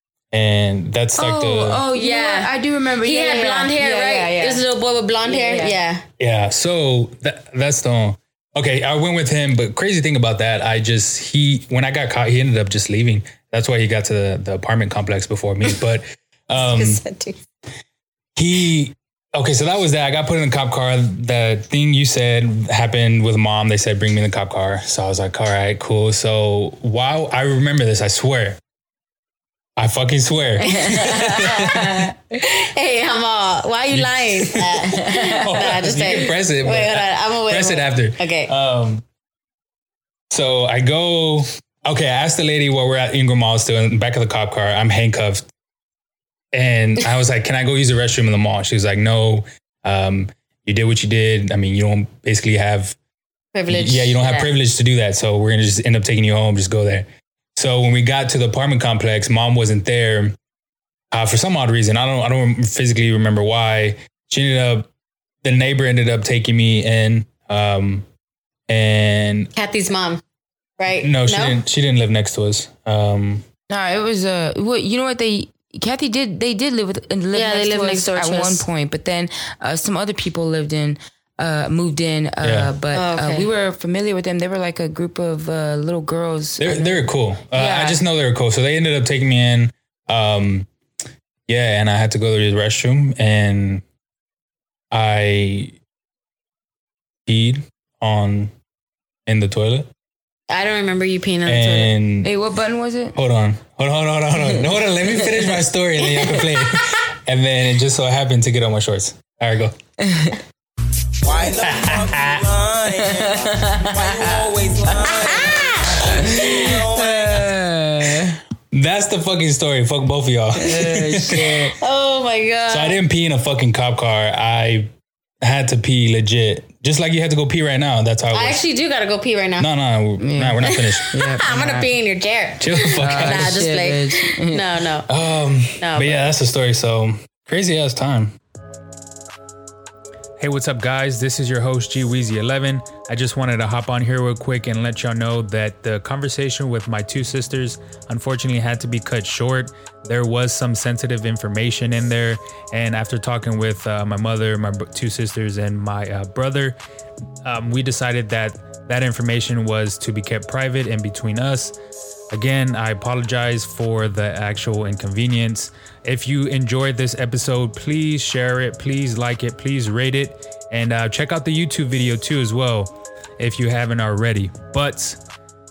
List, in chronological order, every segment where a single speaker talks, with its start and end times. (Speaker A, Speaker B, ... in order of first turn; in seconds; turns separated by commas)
Speaker A: 0.3-1.8, Speaker B: 1.1-4.6, Speaker C: 1.9-6.0, Speaker B: 5.2-5.8, Speaker A: 6.2-17.0, Speaker C: 16.6-17.4, Speaker A: 18.4-28.6, Speaker A: 29.8-32.0, Speaker B: 30.6-32.1, Speaker C: 30.9-38.5, Speaker A: 33.9-39.0, Speaker B: 34.9-35.6, Speaker A: 40.3-45.5, Speaker A: 46.5-53.0, Speaker C: 53.5-54.5, Speaker A: 53.7-60.4, Speaker A: 61.1-64.9, Speaker A: 65.4-68.1, Speaker A: 68.7-69.5, Speaker C: 69.5-70.2, Speaker C: 70.8-71.6, Speaker A: 71.0-73.4, Speaker B: 73.7-88.0, Speaker C: 77.3-78.7, Speaker A: 82.4-82.7, Speaker C: 82.9-83.5, Speaker A: 86.6-90.7, Speaker A: 91.5-93.8, Speaker A: 94.9-95.7, Speaker A: 97.2-98.5, Speaker A: 99.2-99.9, Speaker C: 100.5-101.9, Speaker A: 101.5-102.3, Speaker B: 102.2-103.2, Speaker A: 103.1-109.7, Speaker B: 105.2-105.5, Speaker B: 110.0-110.4, Speaker D: 111.3-113.3, Speaker A: 111.3-112.6, Speaker B: 112.8-114.5, Speaker D: 114.0-115.5, Speaker C: 114.9-116.1, Speaker B: 116.0-118.4, Speaker A: 116.2-116.8, Speaker A: 118.7-121.7, Speaker B: 120.6-121.7, Speaker C: 121.8-123.0, Speaker A: 122.7-124.9, Speaker A: 125.4-128.6, Speaker C: 128.3-129.7, Speaker A: 129.6-131.1, Speaker B: 130.2-131.9, Speaker C: 130.6-135.1, Speaker A: 132.6-133.6, Speaker B: 133.0-134.6, Speaker A: 135.1-138.3, Speaker C: 135.8-136.3, Speaker A: 140.4-156.8, Speaker A: 157.4-161.8, Speaker A: 162.3-175.2